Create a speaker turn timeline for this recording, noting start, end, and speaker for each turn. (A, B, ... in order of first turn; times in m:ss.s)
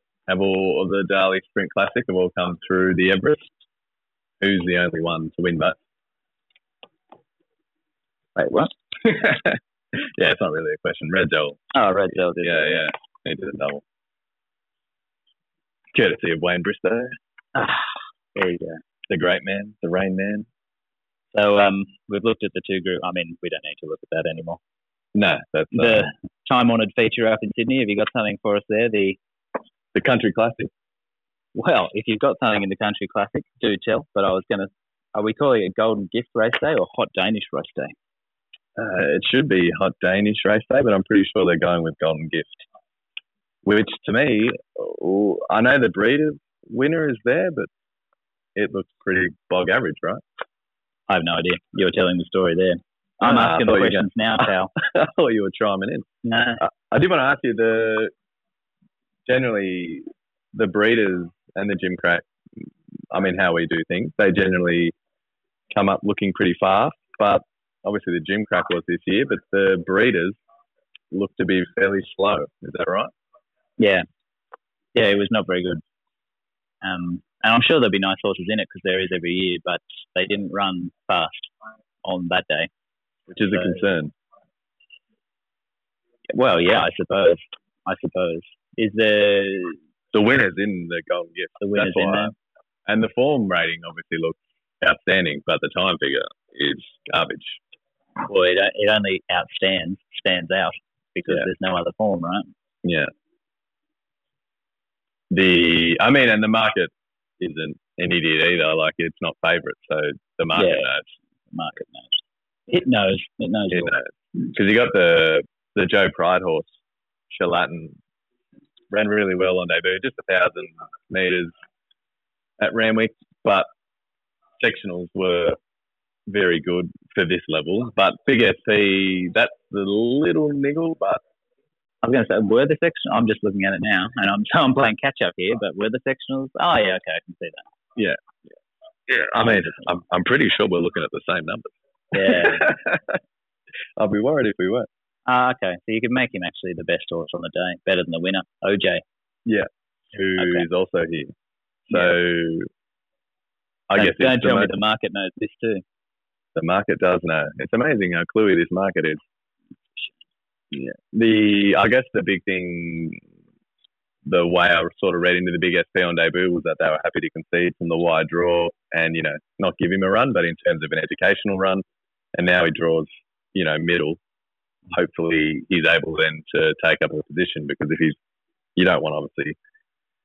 0:00.3-0:03.5 A
0:04.4-0:05.8 A
0:08.4-0:09.0 B
0:09.1-0:11.6 A
0:11.7-0:12.8 B
0:12.4-0:13.8 A
0:15.9-0:17.2 A
0:17.5-0:18.8 B
0:19.1-0:20.5 A
0:21.3-0:24.6 B
0:25.1-0:26.1 A
0:25.7-0:29.2 B
0:29.9-0:30.7 A
0:31.5-0:37.9 B
0:38.8-0:42.6 A
0:43.6-0:47.7 A
0:48.6-0:50.2 A
0:51.1-0:54.7 B
0:53.2-0:54.1 A
0:54.8-0:56.1 A
0:56.2-0:56.6 B
0:56.6-0:58.1 A
0:59.3-1:02.3 A
1:03.1-1:04.9 A
1:05.7-1:10.4 A
1:11.1-1:13.1 A
1:13.8-1:14.0 B
1:14.9-1:15.8 B
1:16.8-1:21.5 B
1:22.0-1:22.7 B
1:23.3-1:24.1 A
1:26.3-1:29.8 B
1:30.1-1:32.3 A
1:31.6-1:32.3 B
1:32.9-1:37.6 A
1:38.2-1:42.5 B
1:42.8-1:43.1 A
1:45.3-1:51.1 A
1:50.5-1:50.9 B
1:51.5-1:53.9 B
1:53.7-1:56.7 A
1:57.3-1:58.0 A
1:58.9-2:01.5 A
2:02.6-2:03.7 A
2:04.6-2:05.6 A
2:06.3-2:11.2 A
2:12.0-2:17.6 B
2:18.0-2:18.2 A
2:19.1-2:23.2 A
2:22.1-2:22.7 B
2:24.0-2:24.9 A
2:25.2-2:29.0 B
2:29.4-2:31.3 A
2:30.4-2:30.6 B
2:31.9-2:32.7 A
2:33.9-2:34.7 A
2:34.0-2:35.8 B
2:36.5-2:39.2 A
2:40.7-2:43.2 A
2:44.2-2:51.8 A
2:52.3-2:54.2 A
2:54.9-2:58.2 A
2:58.8-2:59.6 A